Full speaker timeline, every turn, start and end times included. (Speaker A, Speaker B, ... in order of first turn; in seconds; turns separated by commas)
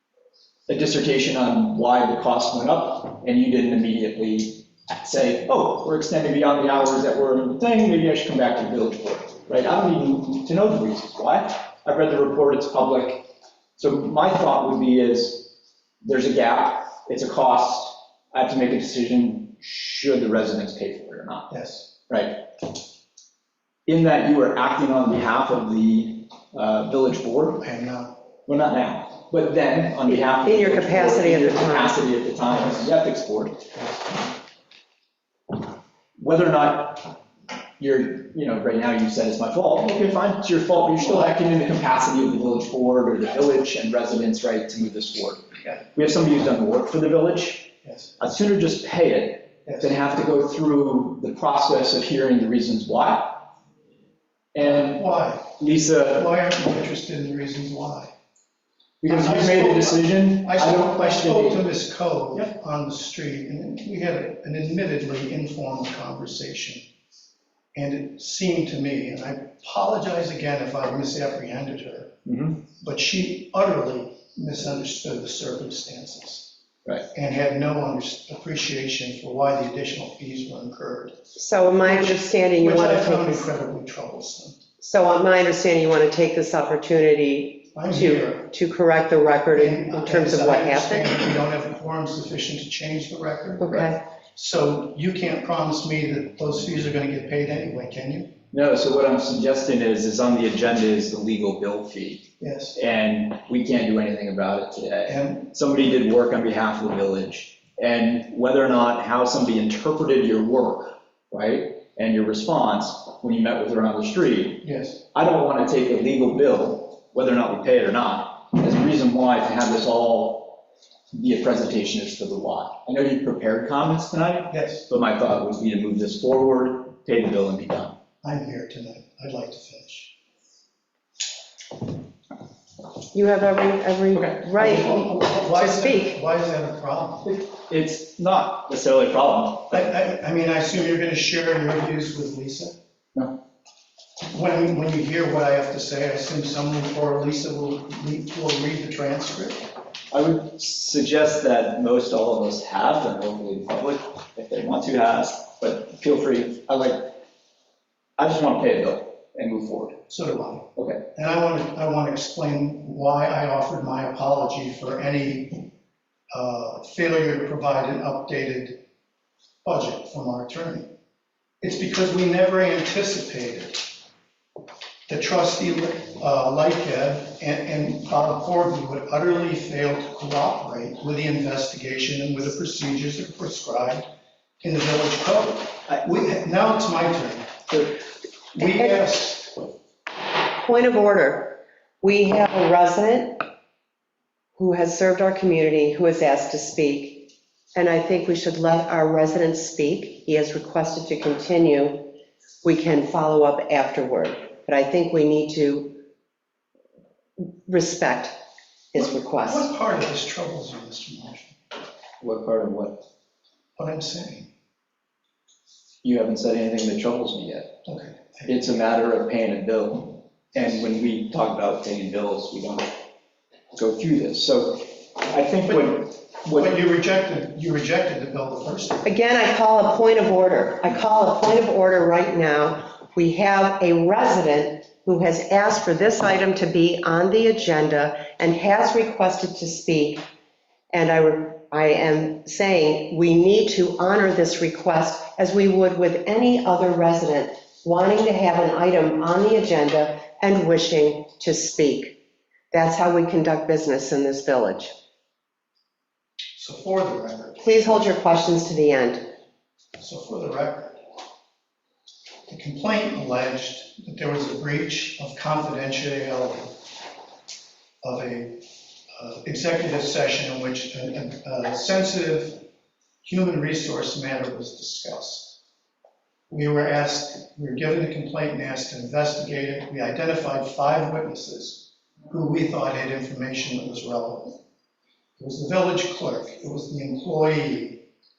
Speaker A: 0.7-13.2, Speaker A: 13.8-21.5, Speaker B: 21.5-21.9, Speaker A: 22.1-22.4, Speaker A: 23.9-27.6, Speaker B: 27.6-28.1, Speaker A: 28.4-33.7, Speaker C: 30.1-32.0, Speaker B: 32.6-32.8, Speaker A: 36.2-37.1, Speaker A: 37.8-53.5, Speaker B: 47.8-48.1, Speaker B: 49.6-49.9, Speaker A: 54.5-55.0, Speaker B: 54.6-58.1, Speaker A: 55.6-56.3, Speaker A: 59.0-61.6, Speaker B: 59.0-66.8, Speaker B: 67.7-72.1, Speaker A: 72.2-72.6, Speaker B: 72.8-76.5, Speaker B: 77.1-81.2, Speaker C: 81.3-83.5, Speaker B: 81.8-84.6, Speaker C: 84.8-91.2, Speaker B: 87.7-88.5, Speaker B: 89.5-98.3, Speaker C: 93.6-94.0, Speaker A: 98.5-120.6, Speaker B: 102.4-102.8, Speaker B: 105.0-105.4, Speaker B: 114.6-115.0, Speaker A: 121.1-128.0, Speaker B: 124.5-124.8, Speaker B: 128.2-130.1, Speaker C: 133.1-136.2, Speaker A: 134.1-134.4, Speaker B: 134.5-137.3, Speaker A: 137.2-139.9, Speaker B: 139.7-142.7, Speaker B: 144.3-149.6, Speaker A: 150.1-157.1, Speaker A: 158.2-159.9, Speaker B: 160.1-165.7, Speaker A: 160.8-161.0, Speaker B: 166.3-168.8, Speaker B: 169.6-170.9, Speaker B: 171.6-173.9, Speaker B: 175.1-184.1, Speaker B: 184.6-187.9, Speaker B: 188.5-189.6, Speaker C: 188.6-189.0, Speaker C: 190.5-193.5, Speaker C: 194.6-202.1, Speaker C: 202.6-206.0, Speaker C: 207.4-208.4, Speaker C: 208.9-209.7, Speaker B: 208.9-211.5, Speaker A: 212.2-213.0, Speaker B: 213.8-214.5, Speaker A: 216.0-217.7, Speaker B: 217.8-218.5, Speaker A: 218.5-222.9, Speaker A: 223.7-226.7, Speaker B: 225.7-229.1, Speaker C: 229.0-240.2, Speaker C: 240.9-252.2, Speaker C: 252.7-254.9, Speaker B: 256.6-257.9, Speaker C: 257.6-259.3, Speaker B: 260.0-261.0, Speaker B: 262.5-266.8, Speaker B: 268.0-272.6, Speaker B: 273.2-275.6, Speaker B: 276.5-284.6, Speaker B: 285.4-288.0